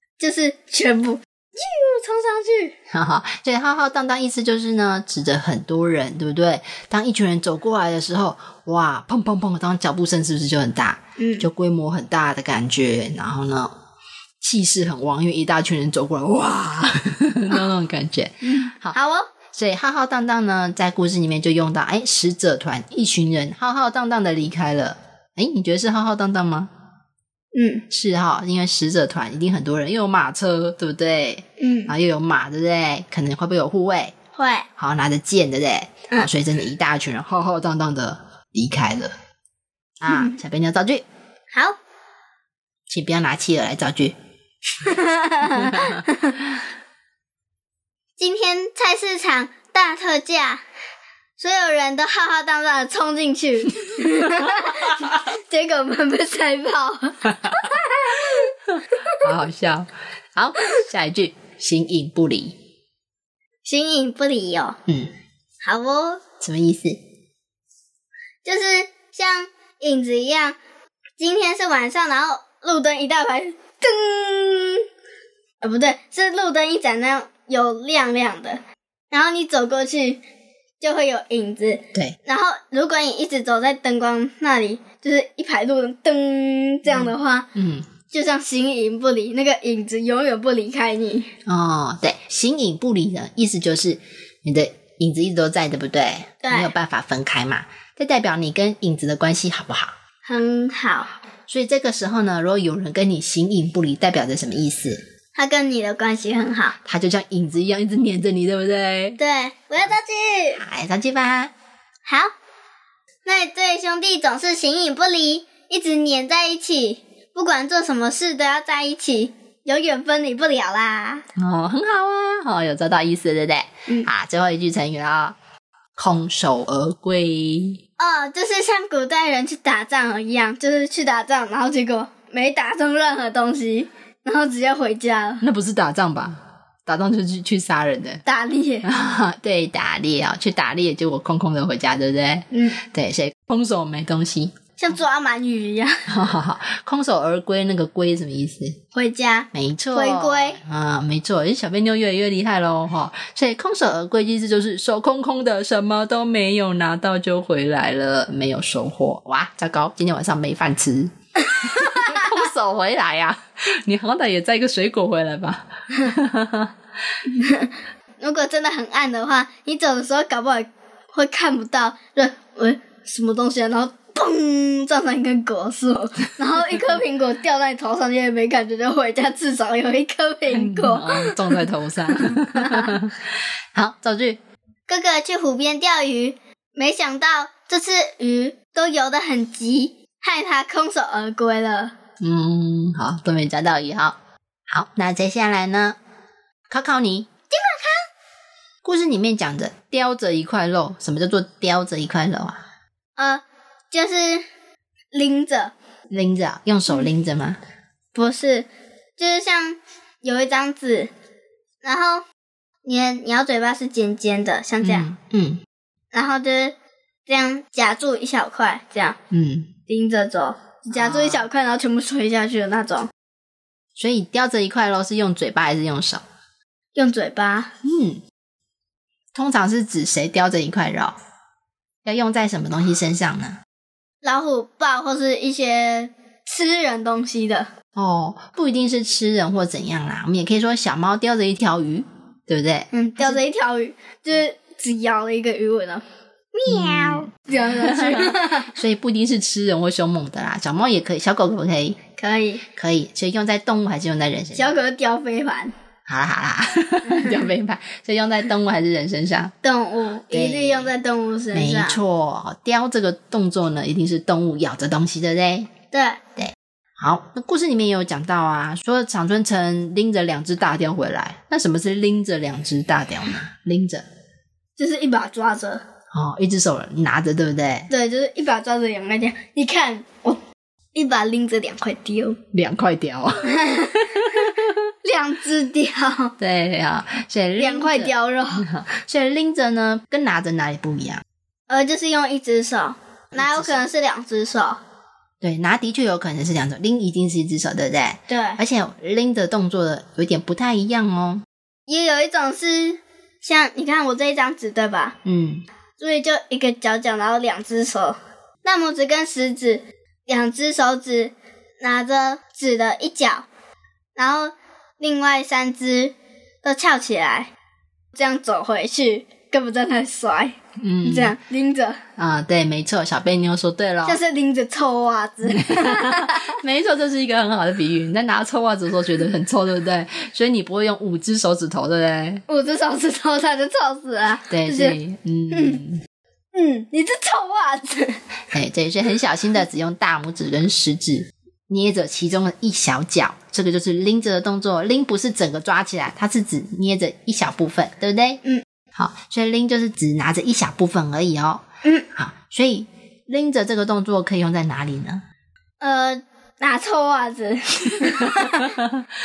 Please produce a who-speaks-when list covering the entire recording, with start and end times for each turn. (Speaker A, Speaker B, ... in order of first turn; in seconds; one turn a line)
Speaker A: 0.2-2.7
Speaker B: 2.9-13.7
Speaker A: 11.2-11.5
Speaker B: 14.4-19.0
Speaker A: 18.4-19.3
Speaker B: 19.5-26.7
Speaker A: 27.5-27.8
Speaker B: 27.9-34.1
Speaker A: 31.6-31.9
Speaker A: 34.4-34.7
Speaker B: 34.8-39.1
Speaker B: 40.0-41.0
Speaker A: 40.1-40.4
Speaker A: 41.5-41.8
Speaker B: 42.9-44.2
Speaker A: 44.8-46.4
Speaker B: 45.5-46.0
Speaker A: 48.2-50.6
Speaker A: 51.4-59.2
Speaker B: 57.3-57.7
Speaker B: 59.1-62.6
Speaker A: 63.6-64.8
Speaker A: 65.6-66.2
Speaker B: 66.4-67.0
Speaker A: 68.5-70.6
Speaker A: 71.2-74.8
Speaker A: 75.6-80.2
Speaker A: 80.8-87.5
Speaker B: 86.9-87.9
Speaker A: 88.1-91.3
Speaker B: 91.5-99.9
Speaker A: 96.4-96.7
Speaker A: 100.3-101.1
Speaker B: 101.5-105.0
Speaker A: 105.3-106.8
Speaker B: 106.8-109.2
Speaker A: 109.2-110.6
Speaker B: 110.6-111.5
Speaker A: 112.1-112.3
Speaker A: 113.2-121.2
Speaker B: 121.4-125.4
Speaker B: 126.0-127.8
Speaker A: 128.0-135.4
Speaker B: 135.4-138.2
Speaker A: 138.3-138.9
Speaker B: 138.8-144.6
Speaker A: 142.5-142.8
Speaker A: 144.8-146.1
Speaker B: 146.1-148.8
Speaker A: 148.9-150.6
Speaker B: 149.5-166.7
Speaker A: 161.6-162.3
Speaker A: 167.3-181.6
Speaker B: 180.5-184.4
Speaker A: 182.2-183.0
Speaker A: 184.9-191.9
Speaker B: 192.2-194.2
Speaker B: 194.7-196.0
Speaker B: 196.7-197.3
Speaker A: 197.5-198.1
Speaker B: 198.8-202.6
Speaker A: 203.2-204.4
Speaker A: 205.1-205.7
Speaker B: 206.1-207.6
Speaker A: 208.1-208.7
Speaker A: 209.2-211.1
Speaker A: 211.8-212.2
Speaker A: 212.8-215.1
Speaker B: 214.8-215.6
Speaker A: 216.1-216.8
Speaker A: 217.3-219.2
Speaker B: 219.3-219.7
Speaker A: 219.9-223.1
Speaker B: 220.9-221.5
Speaker B: 224.0-226.2
Speaker A: 226.9-227.7
Speaker B: 227.8-228.2
Speaker B: 229.3-231.2
Speaker B: 232.1-233.6
Speaker A: 234.2-237.7
Speaker B: 237.9-243.4
Speaker A: 242.9-248.8
Speaker B: 246.7-252.0
Speaker A: 252.2-252.6
Speaker B: 252.8-254.7
Speaker A: 254.5-255.7
Speaker B: 256.1-259.5
Speaker A: 257.1-257.4
Speaker A: 259.6-262.0
Speaker B: 260.3-260.9
Speaker B: 261.5-265.7
Speaker A: 265.9-266.2
Speaker B: 266.4-274.0
Speaker A: 274.8-275.8
Speaker B: 276.1-277.9
Speaker A: 277.9-280.4
Speaker A: 280.9-282.4
Speaker B: 282.5-284.7
Speaker A: 283.4-286.4
Speaker B: 286.4-291.2
Speaker A: 287.6-288.7
Speaker A: 291.7-294.8
Speaker B: 293.3-293.8
Speaker B: 295.4-301.4
Speaker A: 298.3-298.6
Speaker A: 301.9-305.2
Speaker B: 305.2-305.6
Speaker A: 306.0-313.5
Speaker A: 314.2-317.5
Speaker A: 318.1-322.0
Speaker B: 320.8-321.4
Speaker B: 322.2-324.2
Speaker A: 324.1-326.6
Speaker B: 325.4-332.4
Speaker A: 332.5-335.0
Speaker B: 334.5-336.0
Speaker A: 335.5-335.8
Speaker A: 336.5-338.2
Speaker B: 338.5-348.4
Speaker B: 348.9-355.2
Speaker A: 355.8-358.7
Speaker B: 358.2-359.1